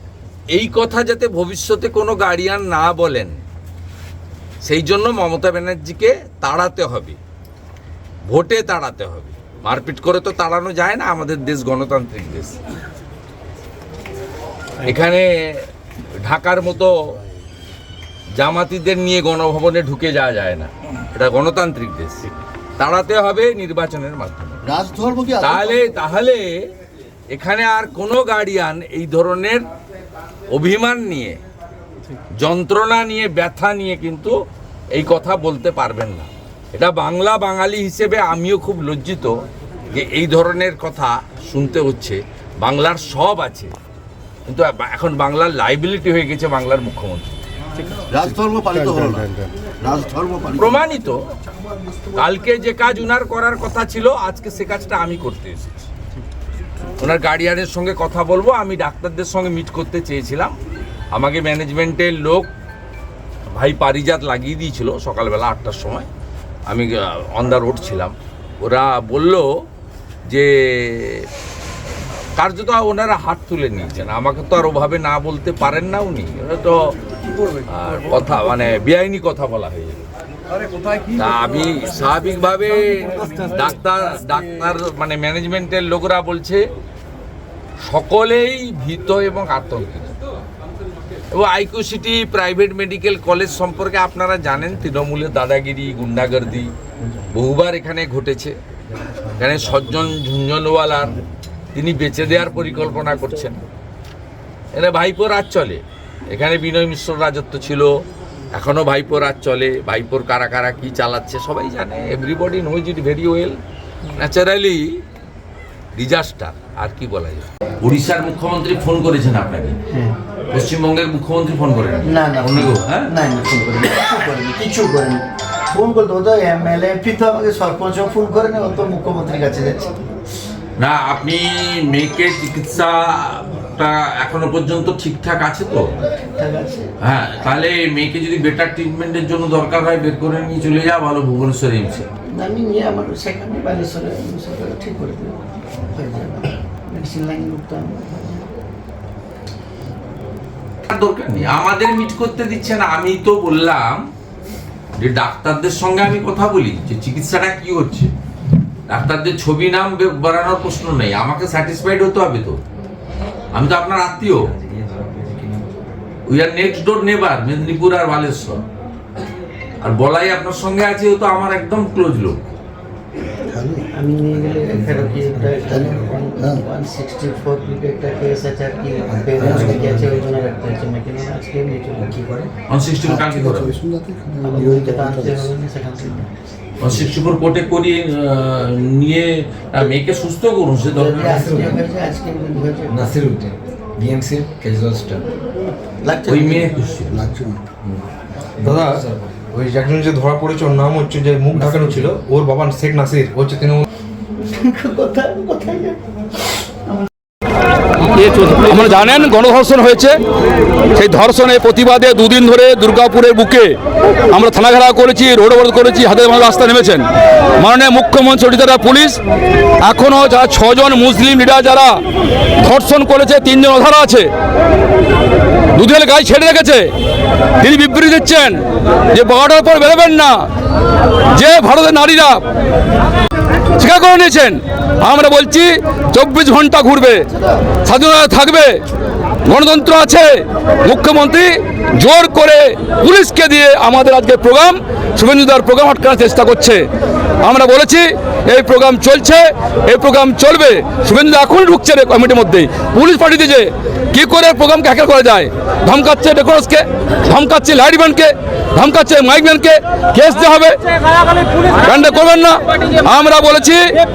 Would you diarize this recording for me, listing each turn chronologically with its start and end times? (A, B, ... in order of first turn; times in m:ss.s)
0:00.5-0:03.4 A
0:04.6-0:07.2 A
0:08.3-0:12.6 A
0:14.8-0:15.7 A
0:16.2-0:16.9 A
0:18.4-0:22.3 A
0:22.8-0:24.8 A
0:24.7-0:25.7 B
0:25.4-0:26.5 A
0:27.3-0:29.6 A
0:30.5-0:31.4 A
0:32.4-0:34.3 A
0:34.9-0:39.4 A
0:39.9-0:43.7 A
0:44.5-0:47.3 A
0:48.1-0:49.2 C
0:49.8-0:50.8 C
0:50.6-0:51.2 A
0:52.2-0:55.9 A
0:57.0-1:00.5 A
1:01.1-1:02.5 A
1:03.6-1:06.1 A
1:06.7-1:09.5 A
1:10.3-1:11.3 A
1:12.4-1:16.8 A
1:17.7-1:20.0 A
1:21.2-1:26.6 A
1:27.9-1:30.2 A
1:31.3-1:36.7 A
1:37.3-1:38.6 A
1:39.4-1:41.2 A
1:41.8-1:43.6 A
1:44.8-1:47.9 A
1:48.5-1:53.6 A
1:54.2-1:55.0 A
1:56.0-1:59.8 A
1:59.9-2:00.2 B
2:00.5-2:03.1 A
2:02.0-2:10.1 B
2:10.8-2:15.9 A
2:16.2-2:17.6 B
2:17.0-2:22.1 A
2:22.3-2:28.5 B
2:30.9-2:34.0 A
2:35.0-2:38.1 A
2:38.9-2:42.6 A
2:43.5-2:44.5 A
2:44.4-2:45.7 D
2:46.3-2:48.6 A
2:49.8-2:52.4 A
2:53.9-3:02.2 B
2:54.4-2:56.2 D
2:59.2-3:00.3 D
3:02.0-3:02.5 D
3:02.7-3:03.8 A
3:04.3-3:06.3 B
3:06.8-3:11.6 A
3:10.9-3:13.2 B
3:11.3-3:11.8 D
3:12.9-3:15.3 D
3:16.0-3:17.2 B
3:16.3-3:17.2 A
3:18.6-3:19.3 D
3:18.6-3:19.0 E
3:19.6-3:23.8 E
3:21.5-3:22.2 D
3:24.4-3:26.0 B
3:28.1-3:30.2 F
3:31.0-3:33.7 F
3:34.3-3:37.0 F
3:37.6-3:39.2 F
3:39.8-3:42.0 F
3:42.6-3:44.3 F
3:45.8-3:46.9 F
3:47.6-3:48.6 F
3:49.1-3:50.5 F
3:51.3-3:52.4 F
3:53.8-3:57.2 F
3:57.8-3:58.8 F
3:59.5-4:06.9 F
4:07.4-4:20.9 F
4:21.6-4:23.9 F